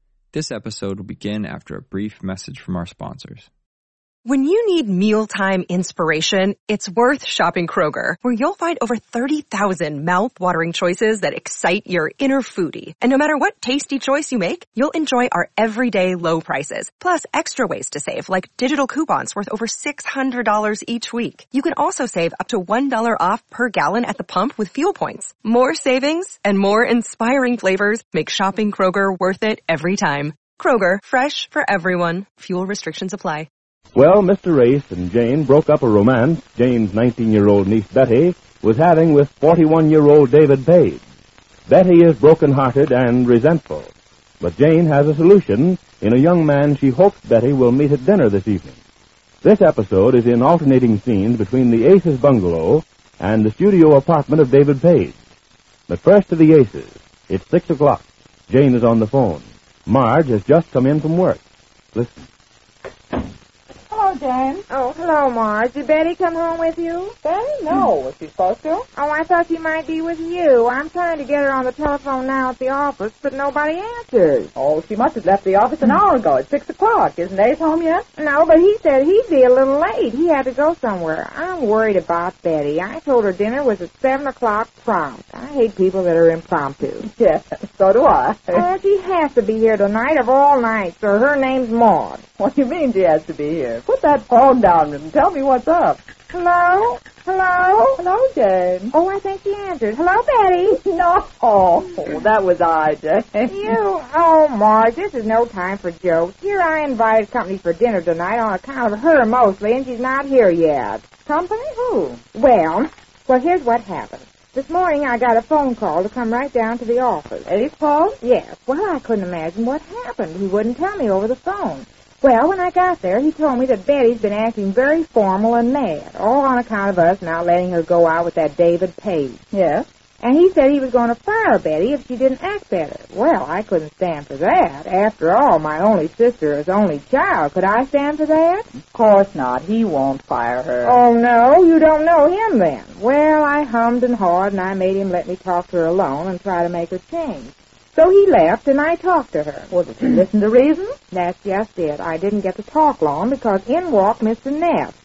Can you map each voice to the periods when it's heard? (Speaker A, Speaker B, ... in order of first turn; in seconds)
Speaker A: 0.3-3.5
Speaker B: 4.3-33.5
Speaker C: 34.0-41.0, 41.7-48.8, 49.4-55.1, 55.9-61.4, 61.9-62.2
Speaker D: 63.9-64.7, 67.2-68.8, 74.5-78.1, 87.0-88.7, 92.4-96.0, 98.0-98.9, 100.7-103.8, 111.2-112.2, 117.5-118.2, 129.5-129.8, 138.9-141.0, 149.7-151.0
Speaker E: 64.7-67.2, 68.9-74.5, 78.2-87.1, 88.5-92.2, 96.3-98.0, 98.9-100.8, 103.5-111.0, 112.3-117.5, 118.2-129.4, 130.2-138.7, 140.8-149.7, 151.1-154.9